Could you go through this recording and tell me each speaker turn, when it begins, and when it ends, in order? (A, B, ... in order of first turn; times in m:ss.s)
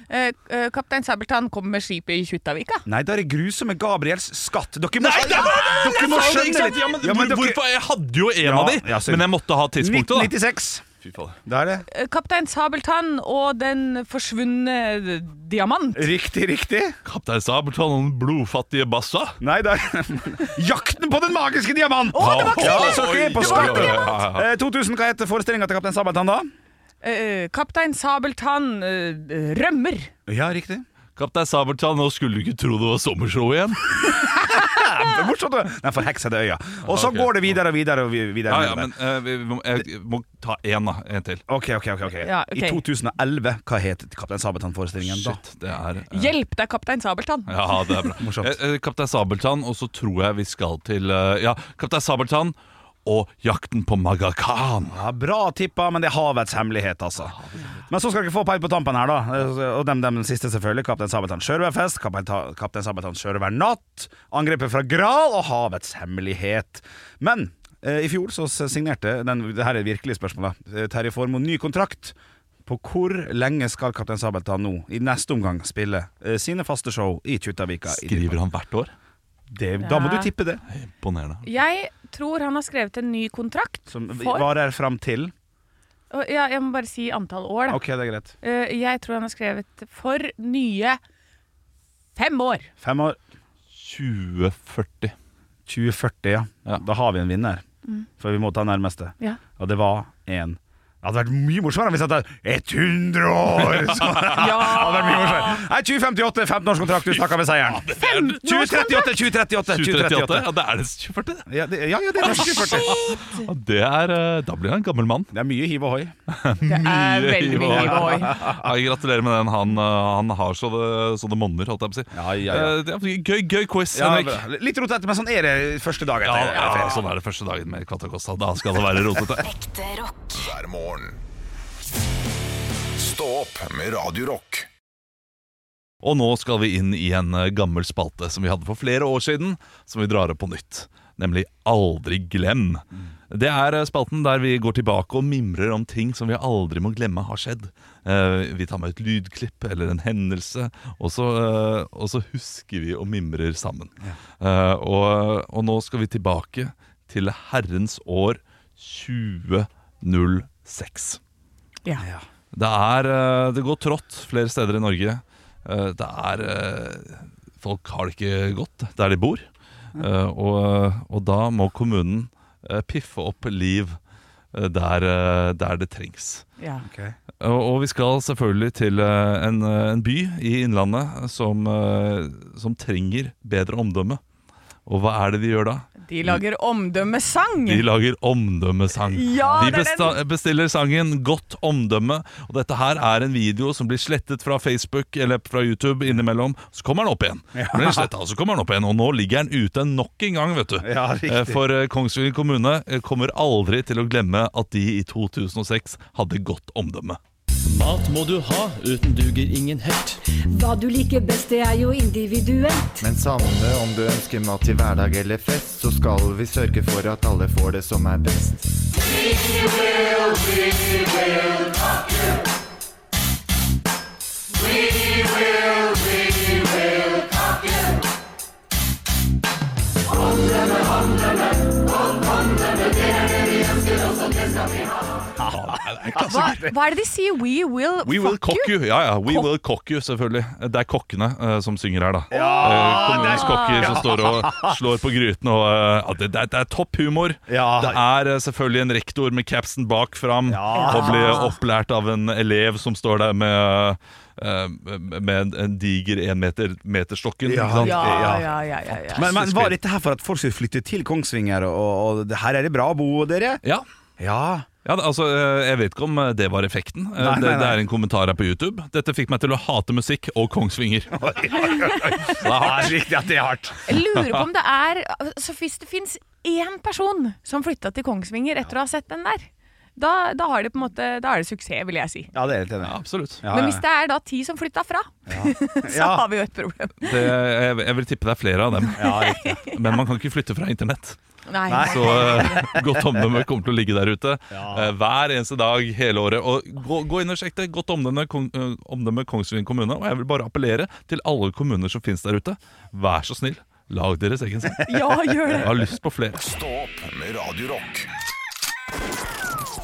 0:00.1-0:02.8 A
0:02.8-0:07.6 B
0:05.0-0:10.3 C
0:08.4-0:10.8 B
0:11.0-0:11.4 C
0:11.4-0:11.8 B
0:11.9-0:16.1 A
0:15.9-0:17.0 B
0:17.0-0:19.4 C
0:19.4-0:26.5 B
0:22.1-0:24.1 A
0:22.2-0:24.4 C
0:27.0-0:30.1 A
0:30.3-0:30.8 B
0:31.2-0:34.2 C
0:34.5-0:38.9 B
0:36.8-0:37.6 C
0:38.5-0:41.4 C
0:41.5-0:45.4 B
0:42.2-0:42.8 A
0:45.0-0:46.3 C
0:46.1-0:48.1 A
0:47.5-0:55.0 C
0:48.2-0:48.6 B
0:54.9-0:57.3 B
0:57.2-0:57.8 C
0:57.9-1:18.4 B
1:17.9-1:18.9 C
1:19.5-1:20.6 B
1:19.8-1:20.3 A
1:20.7-1:21.4 C
1:21.4-1:24.5 A
1:23.9-1:25.3 B
1:26.1-1:27.8 A
1:27.7-1:28.3 B
1:28.4-1:31.0 A
1:32.2-1:32.7 A
1:32.8-1:33.2 B
1:33.7-1:35.1 C
1:35.7-1:37.6 B
1:38.2-1:50.5 B
1:43.7-1:44.4 C
1:44.3-1:45.6 A
1:47.0-1:48.8 C
1:48.0-1:49.1 A
1:49.7-1:51.5 C
1:51.5-1:53.0 B
1:52.2-1:55.3 C
1:52.8-1:53.4 A
1:55.3-1:56.1 B
1:56.3-2:04.4 C
1:56.6-1:58.4 A
1:57.7-1:58.6 B
2:02.1-2:02.8 B
2:03.9-2:07.0 B
2:06.2-2:09.5 C
2:09.4-2:10.4 D
2:10.3-2:11.2 E
2:13.0-2:14.7 E
2:16.0-2:41.2 C
2:42.0-2:42.2 B
2:42.5-2:54.0 C
2:54.5-2:56.4 C
2:56.6-2:56.8 A
2:56.8-2:57.1 B
2:57.4-3:04.2 C
3:04.8-3:06.4 C
3:06.0-3:07.8 A
3:07.6-3:27.2 C
3:09.0-3:10.2 A
3:17.5-3:18.1 B
3:20.8-3:21.6 B
3:27.6-3:30.2 F
3:30.5-3:33.0 D
3:33.0-3:38.8 G
3:55.4-3:56.7 B
3:55.5-3:56.6 C
3:56.2-3:59.5 A
3:58.0-4:19.8 C
4:02.3-4:04.2 A
4:02.3-4:04.7 B
4:07.5-4:08.0 B
4:10.5-4:11.4 B
4:10.7-4:11.6 A
4:17.4-4:18.5 B
4:17.8-4:19.3 A
4:19.1-4:23.6 B
4:24.2-4:24.7 B
4:24.8-4:33.0 C
4:27.2-4:27.8 B
4:31.1-4:33.8 B
4:33.9-4:42.3 A
4:34.1-4:34.4 C
4:42.3-4:43.8 B
4:42.8-4:43.4 C
4:43.5-4:47.3 A
4:45.3-4:46.2 B
4:47.0-4:49.1 C
4:48.9-4:50.0 A
4:48.9-4:49.6 B
4:49.6-4:51.2 C
4:51.5-4:52.8 A
4:51.7-4:52.9 B
4:51.8-5:04.9 C
4:54.5-4:54.9 B
5:04.8-5:05.7 A
5:05.5-5:06.4 C
5:06.4-5:08.1 E